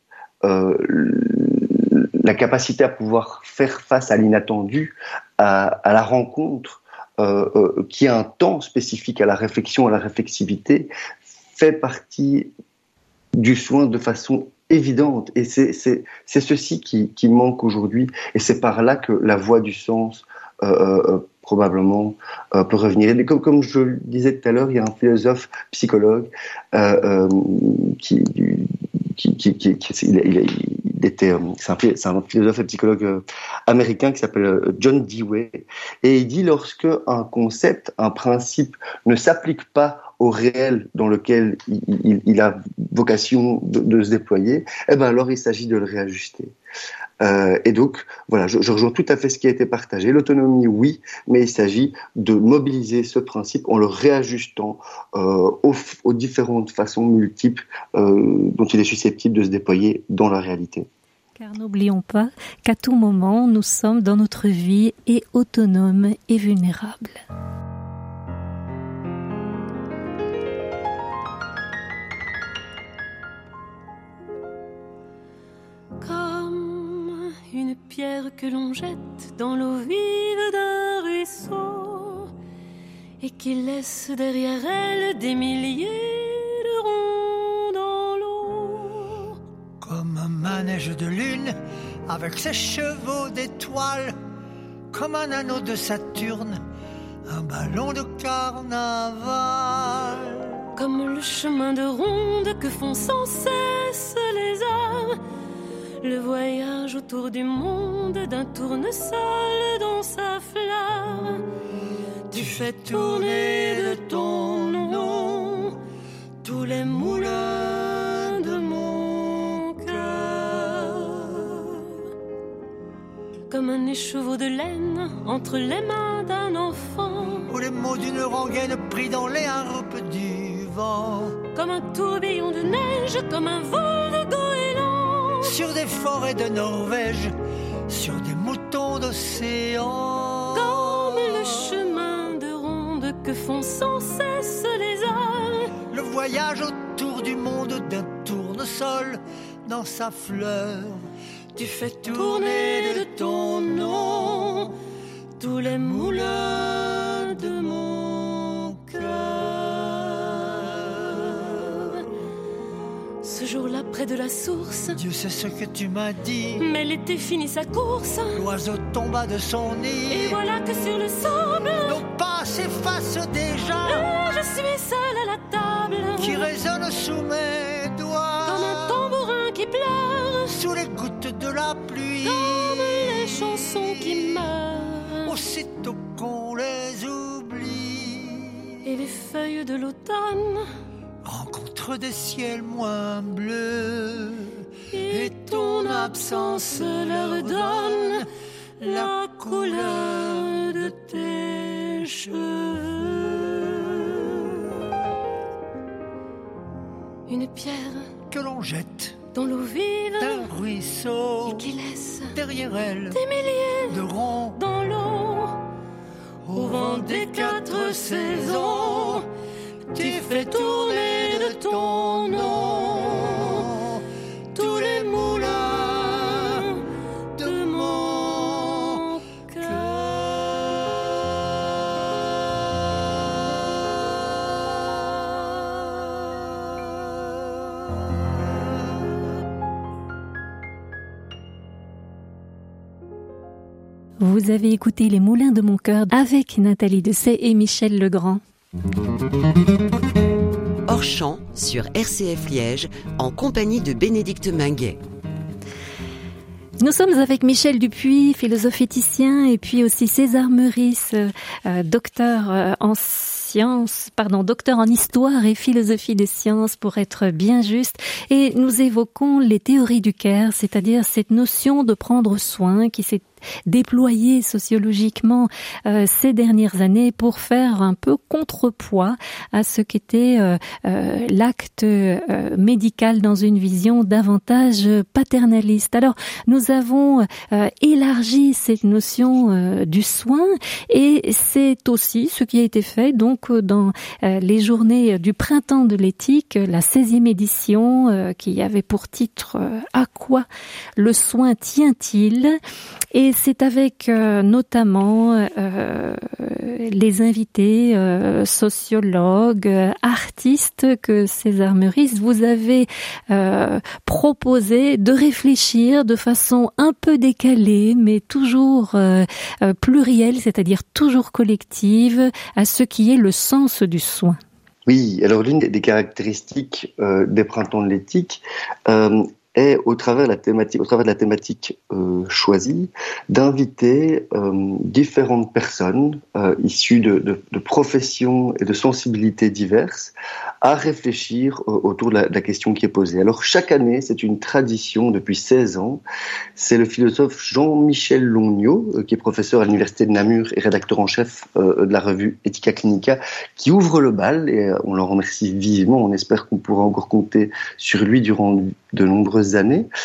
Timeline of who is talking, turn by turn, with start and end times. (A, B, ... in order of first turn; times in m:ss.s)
0:00.4-0:10.9 A
0:11.5-0:12.5 A
0:13.4-0:46.5 A
0:47.2-1:00.9 A
1:01.4-1:07.2 B
1:16.0-1:22.3 C
1:23.2-1:29.4 C
1:29.8-1:34.2 D
1:34.9-1:36.6 D
1:37.3-1:40.4 D
1:40.8-1:45.2 C
1:46.0-1:51.4 C
1:52.3-1:55.8 C
1:52.3-1:55.5 D
1:56.4-2:01.1 D
1:56.4-2:01.2 C
2:03.5-2:07.5 C
2:07.5-2:11.4 D
2:11.5-2:15.6 C
2:15.4-2:17.3 D
2:17.9-2:21.6 D
2:20.5-2:25.7 C
2:25.9-2:31.1 D
2:31.6-2:34.7 C
2:31.6-2:34.4 D
2:35.4-2:39.4 C
2:35.7-2:37.5 D
2:41.5-2:42.0 C
2:43.2-2:45.0 C
2:44.9-2:46.6 D
2:46.6-2:48.4 C
2:48.3-2:50.4 D
2:50.1-2:52.0 C
2:51.8-2:54.2 D
2:53.8-2:56.5 C
2:56.2-2:59.0 D
2:58.4-3:00.6 C
3:00.5-3:04.4 D
3:02.2-3:05.3 C
3:05.2-3:08.7 D
3:08.8-3:10.6 C
3:11.2-3:18.3 D
3:14.9-3:18.2 C
3:18.8-3:23.2 D
3:18.8-3:23.3 C
3:27.3-3:28.1 C
3:28.3-3:29.2 D
3:29.3-3:30.5 C
3:30.2-3:31.7 D
3:31.4-3:32.3 C
3:32.3-3:33.2 D
3:33.1-3:34.0 C
3:33.9-3:34.6 D
3:34.6-3:35.6 C
3:36.4-3:39.2 D
3:36.6-3:39.2 C
3:39.9-3:44.0 D
3:40.0-3:43.6 C
3:44.5-3:46.8 C
3:44.6-3:46.6 D
3:47.4-3:48.8 D
3:47.4-3:50.0 C
4:04.2-4:08.4 B
4:10.8-4:15.0 E
4:16.8-5:02.6 B
5:03.1-5:24.4 B
5:24.8-5:46.0 A
5:46.6-5:59.9 A